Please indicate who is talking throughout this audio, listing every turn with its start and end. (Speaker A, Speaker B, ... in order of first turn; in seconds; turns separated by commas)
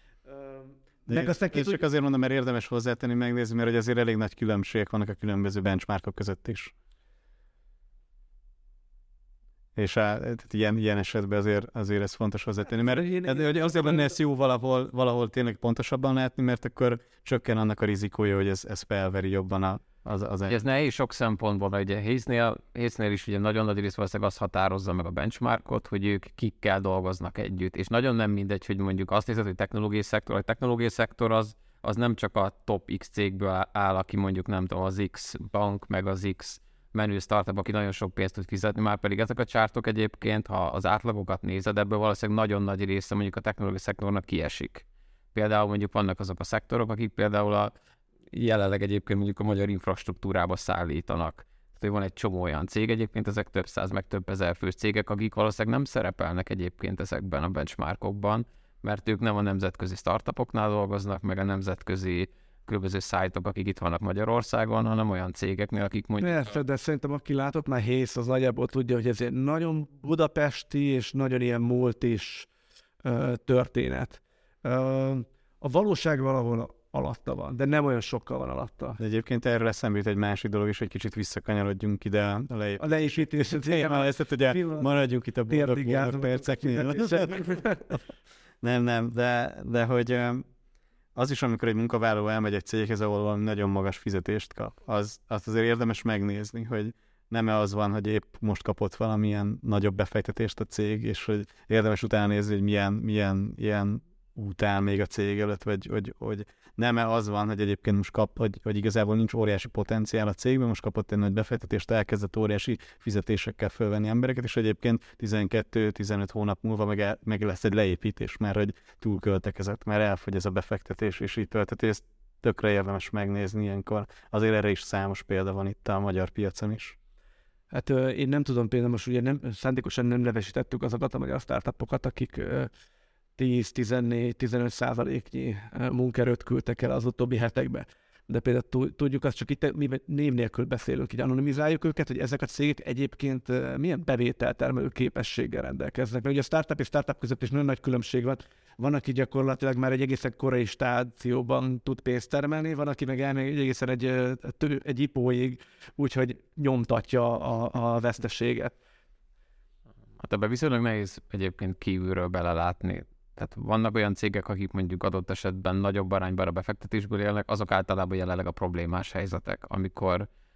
Speaker A: 0.3-1.8, Speaker B: 1.1-6.7, Speaker B: 9.8-20.6, Speaker A: 12.8-14.1, Speaker C: 20.5-47.7, Speaker C: 48.3-66.6, Speaker A: 66.2-72.5, Speaker A: 73.0-79.0, Speaker B: 79.0-88.0, Speaker A: 82.8-84.9, Speaker A: 85.5-88.0, Speaker B: 88.6-90.5, Speaker B: 91.1-127.0, Speaker A: 127.7-132.7, Speaker A: 133.4-158.7, Speaker C: 160.2-170.3